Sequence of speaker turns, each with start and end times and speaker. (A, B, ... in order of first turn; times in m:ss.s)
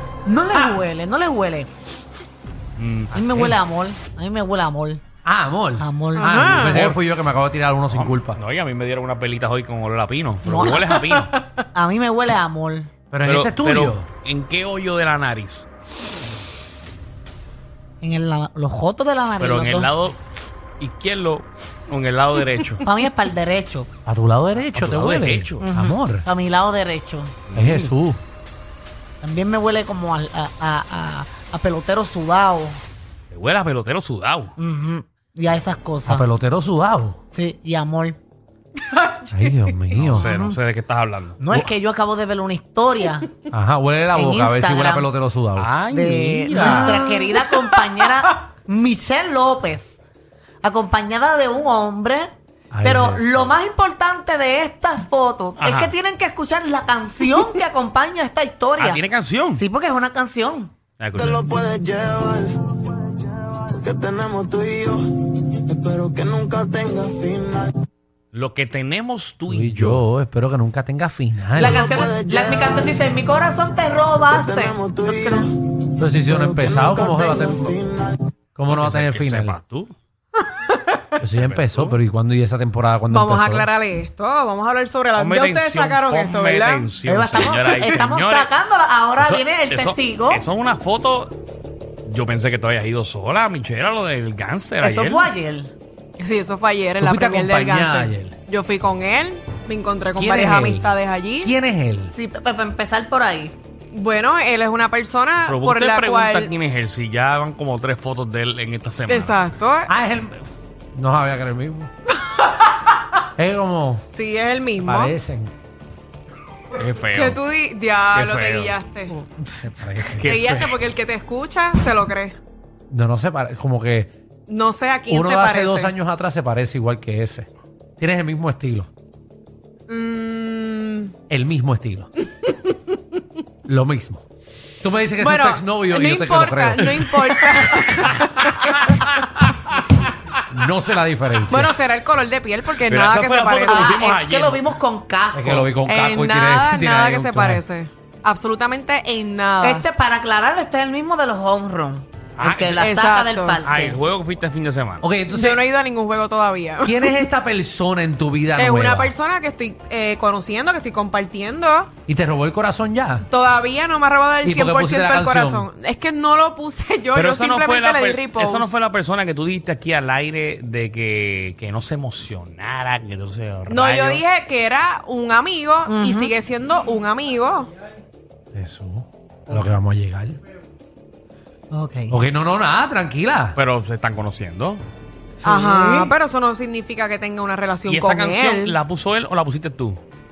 0:00.2-0:01.7 A
0:02.8-0:03.2 B
0:03.1-0:05.0 A
0:03.2-0:03.6 C
0:05.2-0:08.4 C
0:05.8-0:06.9 A
0:06.2-0:06.8 D
0:07.9-0:11.3 B
0:10.4-0:10.8 A
0:10.8-0:11.4 D
0:11.7-0:12.9 A
0:13.1-0:14.1 C
0:13.2-0:15.7 B
0:18.0-0:19.9 A
0:19.4-0:20.2 B
0:20.8-0:22.9 B
0:22.8-0:23.9 A
0:24.0-0:26.3 C
0:24.7-0:25.6 B
0:25.6-0:27.3 A
0:27.5-0:27.9 B
0:27.5-0:28.2 C
0:29.2-0:32.8 A
0:33.3-0:34.5 B
0:34.6-0:36.3 A
0:36.0-0:37.2 C
0:37.3-0:38.2 A
0:38.8-0:39.7 D
0:39.3-0:40.3 C
0:39.9-0:41.4 B
0:40.1-0:40.6 A
0:41.4-0:43.3 A
0:43.5-0:45.7 C
0:44.1-0:45.1 A
0:45.6-0:47.0 B
0:45.9-0:50.0 A
0:46.5-0:47.4 C
0:47.3-0:48.1 D
0:50.6-0:52.3 A
0:52.7-0:53.5 C
0:52.8-0:59.0 A
0:55.6-0:56.0 B
0:58.8-0:59.6 B
0:59.5-1:00.7 A
1:01.0-1:01.6 B
1:01.5-1:02.5 E
1:03.8-1:05.0 E
1:05.7-1:07.7 E
1:08.3-1:10.0 B
1:09.5-1:12.1 C
1:11.6-1:15.5 A
1:14.7-1:15.2 E
1:16.0-1:17.8 C
1:16.7-1:17.0 E
1:17.7-1:18.0 E
1:18.6-1:19.6 C
1:18.7-1:19.9 B
1:20.7-1:21.0 D
1:21.2-1:23.7 C
1:21.4-1:22.0 B
1:23.1-1:26.9 D
1:25.2-1:28.5 B
1:27.0-1:30.4 A
1:29.2-1:31.3 B
1:32.1-1:35.3 B
1:34.8-1:35.7 A
1:36.2-1:41.5 D
1:37.0-1:38.3 C
1:40.2-1:42.1 C
1:42.1-1:43.5 A
1:43.9-1:46.5 D
1:45.4-1:49.4 B
1:49.1-1:49.9 D
1:49.9-1:51.9 C
1:53.4-1:54.0 C
1:54.1-1:55.1 D
1:54.8-1:55.5 C
1:56.8-1:57.4 B
1:57.1-1:59.2 D
1:58.1-1:58.8 B
1:59.6-2:00.4 C
2:00.0-2:00.7 B
2:00.2-2:02.4 D
2:02.9-2:04.1 C
2:04.5-2:05.9 D
2:05.1-2:07.5 C
2:08.0-2:08.9 C
2:09.9-2:11.1 D
2:11.3-2:12.1 C
2:12.4-2:12.9 D
2:13.7-2:14.2 C
2:14.8-2:17.1 C
2:15.2-2:19.0 D
2:16.8-2:17.1 B
2:18.6-2:19.2 B
2:20.5-2:21.7 C
2:21.5-2:24.0 D
2:22.8-2:24.7 B
2:23.7-2:25.7 A
2:25.3-2:27.6 C
2:25.8-2:29.8 D
2:29.6-2:34.0 A
2:32.4-2:32.8 B
2:32.8-2:33.6 D
2:33.6-2:35.1 B
2:35.0-2:35.6 C
2:35.3-2:37.2 D
2:36.8-2:39.1 C
2:38.6-2:41.9 D
2:42.1-2:43.2 C
2:43.3-2:48.8 D
2:44.4-2:45.7 C
2:47.1-2:54.2 B
2:53.7-2:57.7 D
2:55.8-2:56.3 A
2:58.5-3:00.4 C
2:59.5-2:59.8 A
3:01.7-3:02.2 A
3:02.1-3:03.6 C
3:03.6-3:04.8 B
3:05.4-3:06.1 A
3:05.4-3:08.8 D
3:07.9-3:10.0 B